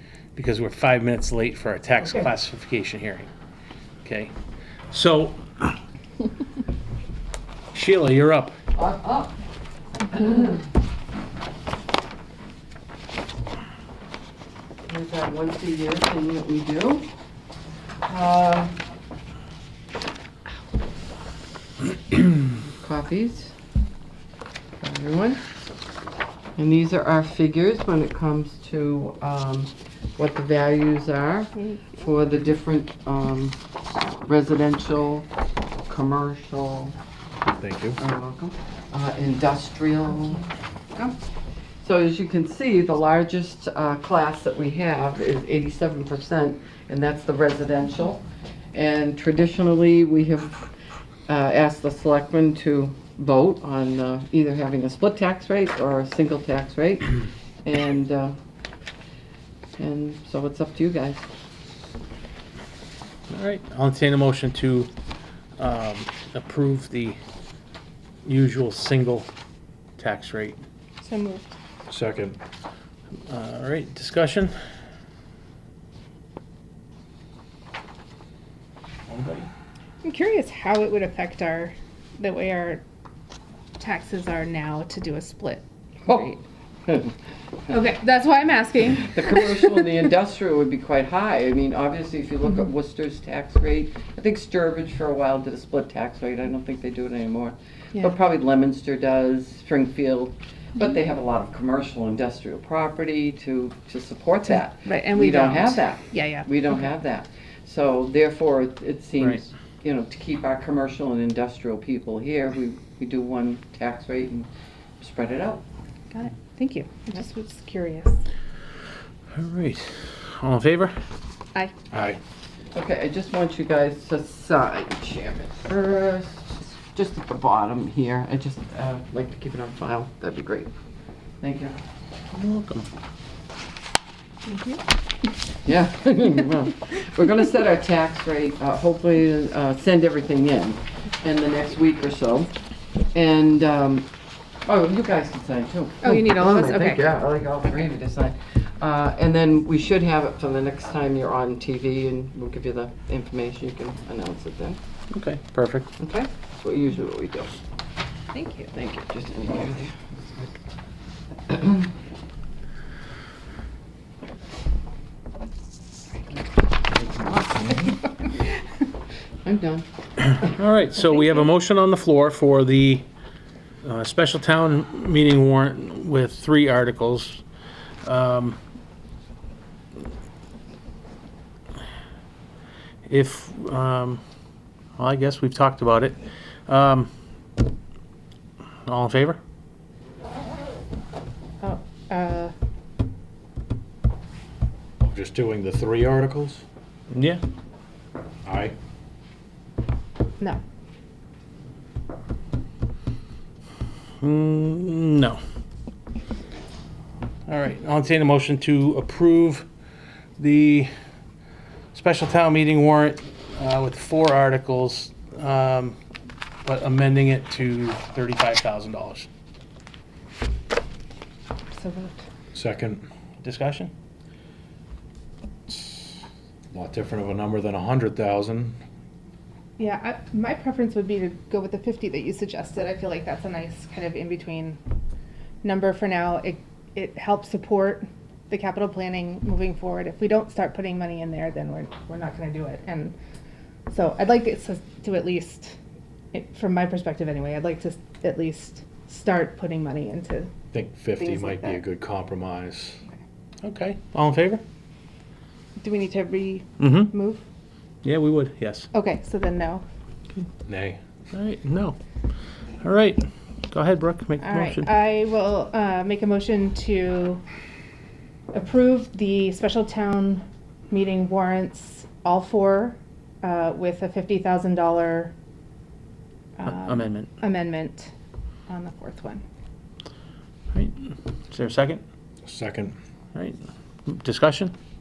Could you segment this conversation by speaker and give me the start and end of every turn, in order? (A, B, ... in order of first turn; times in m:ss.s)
0:00.3-0:03.3 A
0:04.0-0:04.3 A
0:04.9-0:05.8 A
0:07.7-0:08.6 A
0:08.7-0:09.3 B
0:10.1-0:10.6 B
0:14.9-0:17.1 B
0:18.0-0:18.8 B
0:22.5-0:23.5 B
0:24.8-0:25.4 B
0:26.6-0:35.3 B
0:35.8-0:36.9 B
0:37.4-0:38.0 C
0:38.0-0:41.2 B
0:41.8-0:48.2 B
0:48.7-0:50.7 B
0:51.3-0:58.4 B
0:59.8-1:01.2 B
1:03.3-1:04.9 A
1:05.6-1:07.2 A
1:08.2-1:09.3 A
1:10.0-1:10.6 A
1:11.0-1:11.5 D
1:11.9-1:12.4 C
1:13.3-1:14.5 A
1:19.1-1:19.5 A
1:20.0-1:22.8 D
1:23.8-1:26.4 D
1:26.0-1:27.1 B
1:27.7-1:30.0 D
1:29.0-1:55.6 B
1:44.5-1:46.9 D
1:56.1-1:58.2 D
1:59.3-2:00.9 A
2:01.9-2:02.2 C
2:02.7-2:10.7 B
2:11.4-2:11.8 B
2:12.3-2:12.9 A
2:14.4-2:14.8 D
2:15.6-2:22.5 B
2:23.1-2:24.1 B
2:24.6-2:34.8 B
2:26.0-2:27.0 D
2:35.1-2:35.9 A
2:36.0-2:37.6 B
2:38.3-2:38.7 D
2:38.7-2:40.1 B
2:41.5-2:41.8 B
2:47.1-2:47.9 C
2:49.4-2:49.8 B
2:50.4-2:53.0 A
2:53.8-2:57.4 A
2:58.0-2:58.6 A
3:03.1-3:04.2 A
3:05.0-3:07.1 A
3:08.8-3:09.4 A
3:11.6-3:12.5 D
3:15.0-3:16.6 C
3:17.1-3:17.4 A
3:18.4-3:18.7 C
3:24.2-3:25.4 A
3:27.5-3:29.7 A
3:30.4-3:30.9 A
3:31.9-3:36.0 A
3:36.6-3:39.3 A
3:41.7-3:42.2 D
3:42.5-3:43.0 C
3:43.4-3:43.9 A
3:45.7-3:48.8 C
3:49.8-3:54.8 D
3:55.6-4:03.1 D
4:03.9-4:05.8 D
4:06.3-4:10.5 D
4:10.7-4:13.0 C
4:11.2-4:11.8 D
4:13.6-4:14.6 A
4:15.8-4:17.4 D
4:16.8-4:17.1 A
4:18.0-4:18.9 A
4:18.9-4:19.8 D
4:20.6-4:21.0 C
4:21.3-4:22.0 A
4:22.8-4:24.9 A
4:24.4-4:27.4 D
4:28.5-4:35.3 D
4:36.6-4:38.1 D
4:36.6-4:37.4 A
4:38.7-4:39.4 D
4:40.7-4:42.0 A
4:42.4-4:43.0 C
4:43.3-4:44.7 A